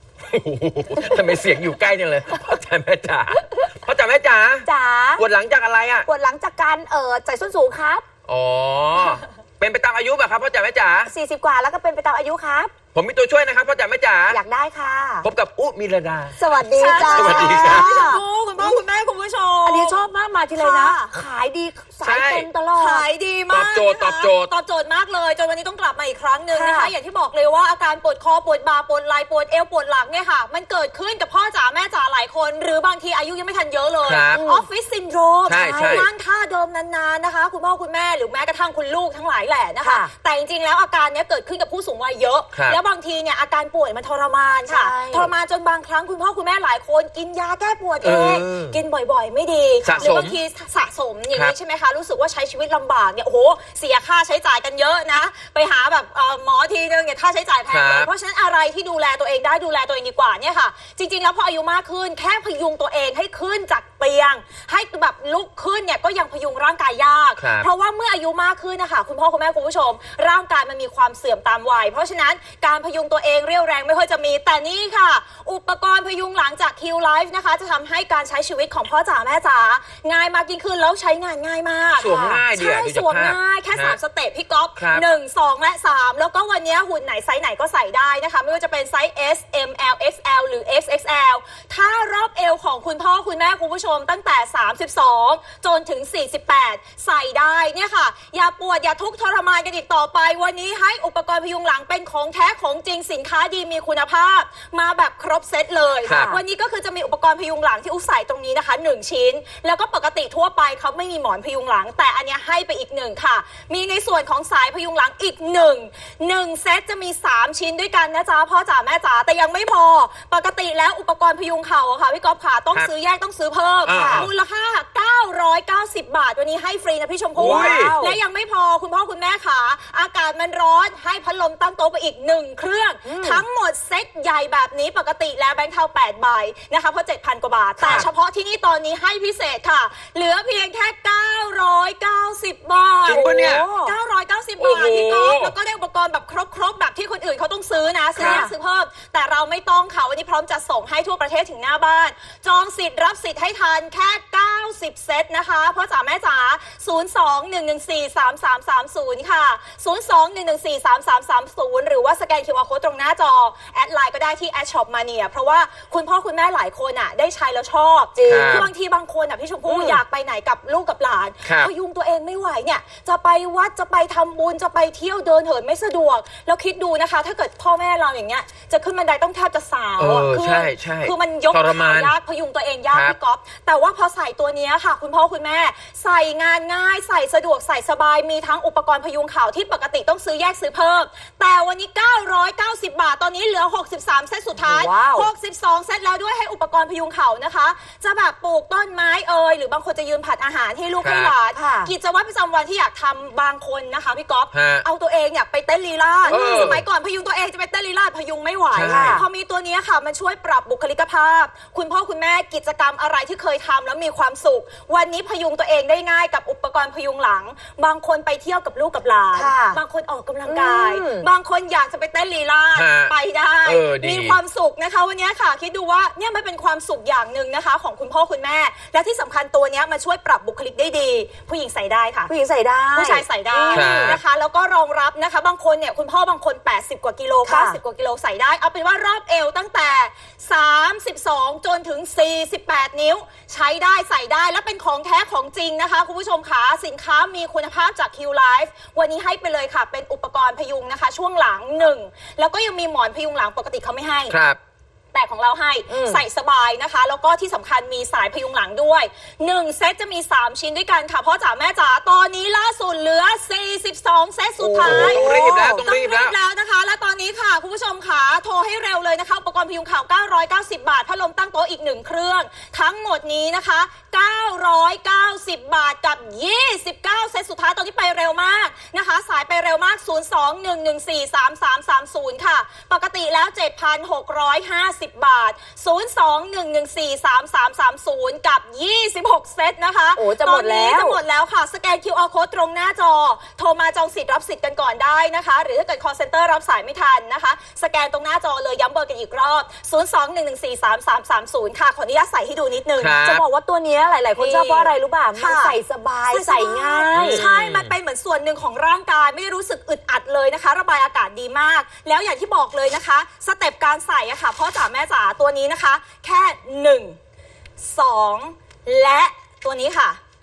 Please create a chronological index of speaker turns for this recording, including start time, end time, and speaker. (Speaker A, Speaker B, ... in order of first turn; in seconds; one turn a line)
Speaker A: 0.2-6.1
Speaker B: 4.7-5.2
Speaker B: 6.0-8.0
Speaker A: 8.3-11.1
Speaker B: 11.1-12.7
Speaker A: 12.9-14.4
Speaker B: 14.3-15.3
Speaker A: 15.2-16.3
Speaker B: 16.4-18.8
Speaker C: 16.7-21.1
Speaker A: 17.0-18.0
Speaker B: 19.6-23.1
Speaker A: 22.0-22.5
Speaker C: 22.7-232.3
Speaker A: 23.5-24.5
Speaker B: 26.5-26.9
Speaker A: 34.0-34.4
Speaker B: 34.3-34.6
Speaker A: 35.5-36.1
Speaker B: 35.5-36.1
Speaker B: 39.8-40.1
Speaker B: 44.6-45.3
Speaker A: 48.0-48.8
Speaker A: 49.8-50.4
Speaker A: 57.7-58.1
Speaker A: 67.4-67.7
Speaker A: 82.0-84.0
Speaker B: 82.0-82.4
Speaker A: 84.8-85.0
Speaker A: 106.0-106.4
Speaker B: 106.1-106.4
Speaker A: 123.8-124.3
Speaker B: 123.9-124.3
Speaker B: 127.3-128.2
Speaker A: 127.4-128.0
Speaker B: 133.0-133.4
Speaker B: 137.8-138.1
Speaker A: 143.1-143.7
Speaker B: 143.1-143.9
Speaker A: 144.6-145.5
Speaker A: 148.2-148.4
Speaker B: 148.2-148.5
Speaker B: 168.1-168.7
Speaker A: 168.2-168.7
Speaker B: 169.7-170.0
Speaker A: 171.4-171.7
Speaker A: 180.0-182.1
Speaker A: 182.9-183.2
Speaker B: 194.6-195.3
Speaker A: 201.0-201.3
Speaker B: 201.5-201.9
Speaker A: 204.5-204.8
Speaker B: 206.2-206.8
Speaker A: 206.3-206.8
Speaker A: 208.7-209.2
Speaker B: 208.9-209.2
Speaker B: 219.3-219.8
Speaker B: 220.4-221.3
Speaker A: 222.7-223.1
Speaker A: 223.6-224.4
Speaker B: 232.3-234.2
Speaker C: 232.9-254.3
Speaker A: 233.7-234.2
Speaker B: 237.4-237.8
Speaker A: 254.3-254.6
Speaker C: 255.1-303.3
Speaker B: 255.9-256.2
Speaker B: 264.6-265.9
Speaker A: 264.8-266.4
Speaker B: 290.1-291.2
Speaker A: 303.0-303.4
Speaker B: 303.2-307.5
Speaker C: 304.4-317.2
Speaker A: 307.1-307.9
Speaker C: 317.8-320.2